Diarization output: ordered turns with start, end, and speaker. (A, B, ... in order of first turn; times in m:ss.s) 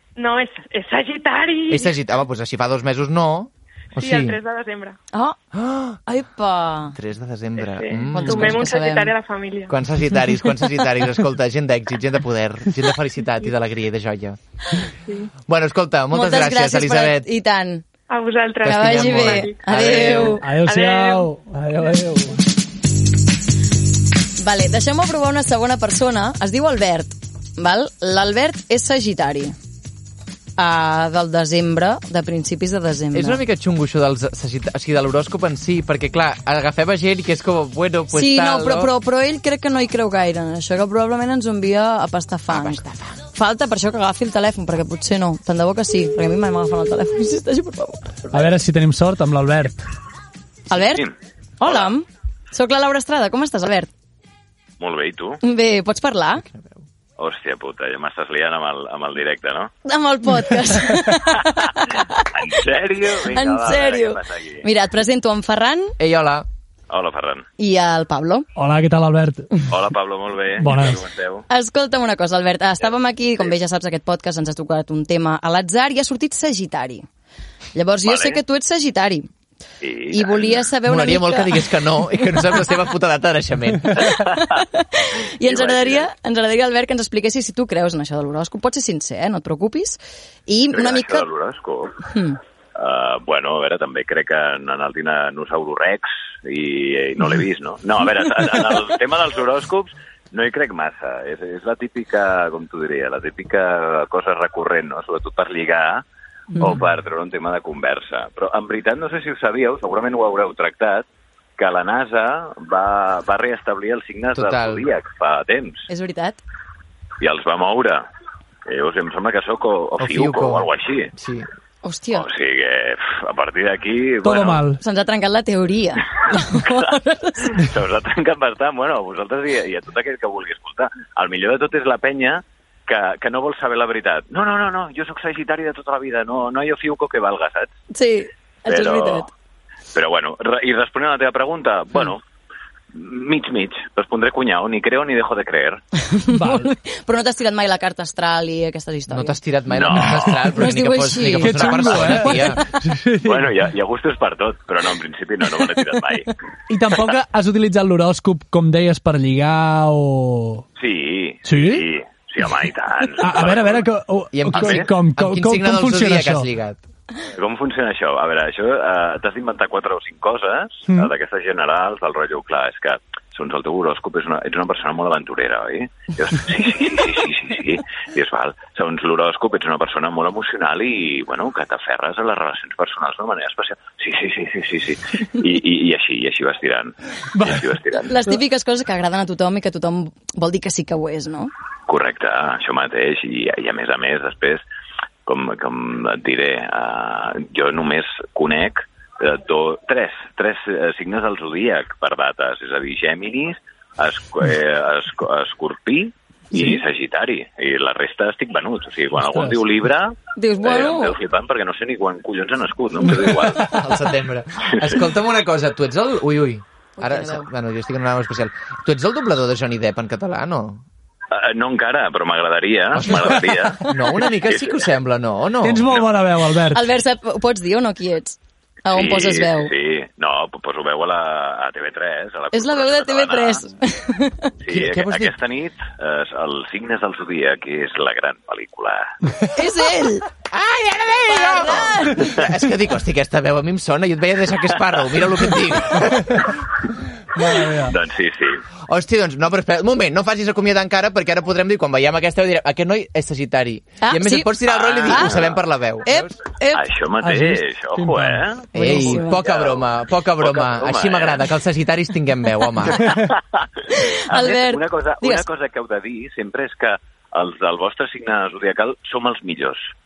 0:00.2-0:02.0 A
0:01.7-0:04.4 B
0:04.0-0:05.0 A
0:05.5-0:06.0 B
0:06.1-0:07.0 C
0:07.0-0:08.6 B
0:07.6-0:09.8 A
0:08.1-0:09.1 C
0:09.7-0:14.4 B
0:15.4-0:17.3 B
0:16.1-0:17.8 C
0:18.1-0:21.3 A
0:18.6-0:20.4 B
0:18.6-0:20.5 C
0:20.3-0:22.4 D
0:24.4-0:29.6 C
0:30.6-0:33.4 C
0:33.1-0:38.9 B
0:38.1-0:48.2 C
0:42.5-0:43.2 B
0:48.3-0:49.8 D
0:50.7-0:51.1 C
0:50.7-0:51.1 E
0:51.6-0:53.9 C
0:51.6-0:51.9 E
0:54.8-0:55.4 E
0:55.4-0:56.5 C
0:57.2-0:59.7 E
0:59.8-1:02.4 C
1:02.3-1:04.7 E
1:03.3-1:06.0 C
1:06.0-1:06.5 B
1:06.9-1:07.5 E
1:07.6-1:08.5 C
1:08.6-1:09.7 D
1:09.7-1:11.5 E
1:10.6-1:11.0 D
1:11.5-1:17.1 C
1:17.8-1:19.3 C
1:18.0-1:18.4 E
1:19.8-1:20.6 E
1:20.1-1:22.3 C
1:20.8-1:24.1 B
1:24.0-1:31.3 C
1:25.4-1:26.1 E
1:30.7-1:32.0 E
1:32.0-1:32.4 C
1:32.8-1:46.0 E
1:46.6-1:46.8 C
1:46.6-1:51.1 E
1:51.6-1:55.9 E
1:54.4-1:54.9 B
1:55.9-1:56.4 C
1:57.2-1:58.1 E
1:58.7-2:01.1 E
2:00.0-2:01.5 B
2:01.8-2:02.3 C
2:02.1-2:04.6 E
2:04.2-2:04.8 D
2:04.8-2:07.6 C
2:07.5-2:17.7 E
2:17.9-2:19.3 C
2:18.7-2:19.3 E
2:19.9-2:22.2 E
2:22.9-2:25.8 E
2:26.1-2:29.4 C
2:26.3-2:26.7 D
2:29.1-2:32.6 B
2:29.7-2:30.5 E
2:30.3-2:32.6 C
2:31.3-2:33.6 D
2:33.2-2:36.3 E
2:36.7-2:40.6 D
2:40.8-2:43.9 E
2:41.4-2:41.9 D
2:43.2-2:46.5 D
2:44.3-2:46.8 B
2:44.5-2:44.9 E
2:47.3-3:08.1 E
3:07.4-3:07.7 D
3:08.0-3:11.5 C
3:11.9-3:14.6 E
3:15.3-3:33.8 E
3:29.3-3:29.6 D
3:30.4-3:31.2 C
3:33.6-3:40.8 B
3:37.0-3:37.5 C
3:41.3-3:44.9 E
3:42.9-3:45.9 B
3:45.6-3:46.9 D
3:46.7-3:49.7 C
3:48.9-3:53.6 E
3:52.5-3:54.5 C
3:54.6-3:59.2 E
3:54.7-3:55.3 B
3:59.5-4:00.3 C
4:00.5-4:06.5 B
4:01.3-4:02.4 C
4:07.4-4:08.0 D
4:07.4-4:08.6 E
4:08.9-4:16.4 B
4:14.0-4:14.5 C
4:14.7-4:15.6 E
4:15.1-4:15.4 C
4:16.0-4:16.8 C
4:16.7-4:18.7 E
4:17.2-4:18.6 D
4:18.7-4:23.2 B
4:18.8-4:19.5 C
4:19.3-4:21.5 E
4:23.0-4:29.9 E
4:23.9-4:25.4 C